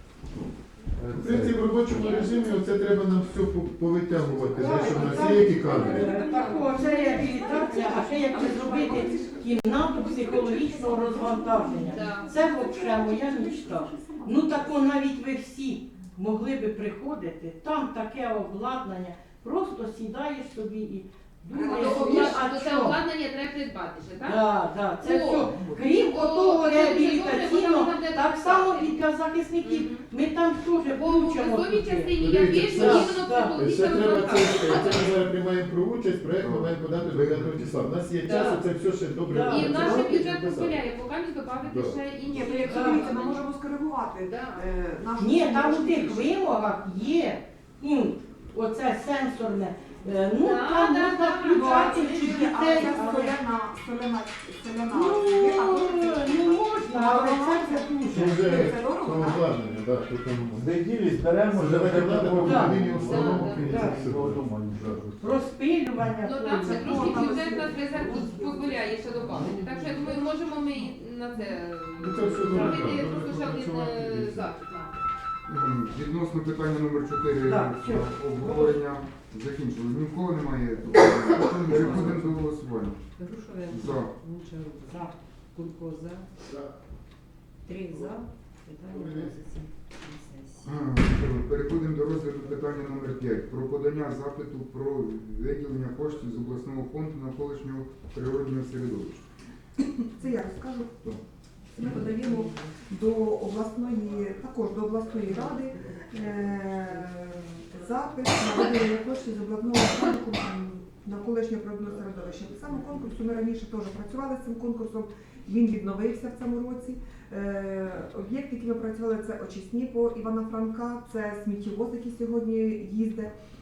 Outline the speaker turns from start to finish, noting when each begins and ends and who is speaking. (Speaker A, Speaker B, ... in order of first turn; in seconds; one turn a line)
Speaker A: 0.3-6.3
Speaker B: 1.0-2.1
Speaker C: 1.9-2.7
Speaker D: 4.5-23.0
Speaker E: 4.7-14.8
Speaker F: 6.1-7.7
Speaker C: 11.8-12.3
Speaker E: 21.5-22.4
Speaker C: 21.5-24.4
Speaker D: 24.2-33.5
Speaker C: 25.0-29.0
Speaker C: 29.6-30.0
Speaker C: 30.9-35.2
Speaker A: 32.2-40.8
Speaker G: 36.4-38.1
Speaker C: 38.2-38.7
Speaker D: 38.3-38.6
Speaker D: 39.3-40.2
Speaker C: 39.4-43.5
Speaker A: 41.6-42.1
Speaker E: 42.2-46.3
Speaker D: 42.6-43.1
Speaker C: 44.2-44.7
Speaker D: 45.2-53.4
Speaker C: 50.4-52.5
Speaker E: 51.5-59.5
Speaker D: 54.9-58.7
Speaker A: 58.1-60.8
Speaker B: 60.5-65.4
Speaker A: 61.5-65.0
Speaker D: 62.4-62.8
Speaker C: 63.0-63.7
Speaker D: 63.6-64.0
Speaker D: 65.2-68.2
Speaker C: 66.2-74.9
Speaker E: 66.6-70.2
Speaker F: 69.2-70.3
Speaker G: 69.3-69.8
Speaker A: 72.0-74.5
Speaker D: 72.4-73.0
Speaker G: 75.5-83.0
Speaker D: 77.4-78.8
Speaker B: 81.7-82.3
Speaker F: 83.2-86.3
Speaker G: 83.7-84.1
Speaker F: 87.7-90.7
Speaker A: 88.9-89.3
Speaker G: 90.6-99.3
Speaker E: 99.8-101.2
Speaker E: 101.7-123.3
Speaker F: 101.8-102.8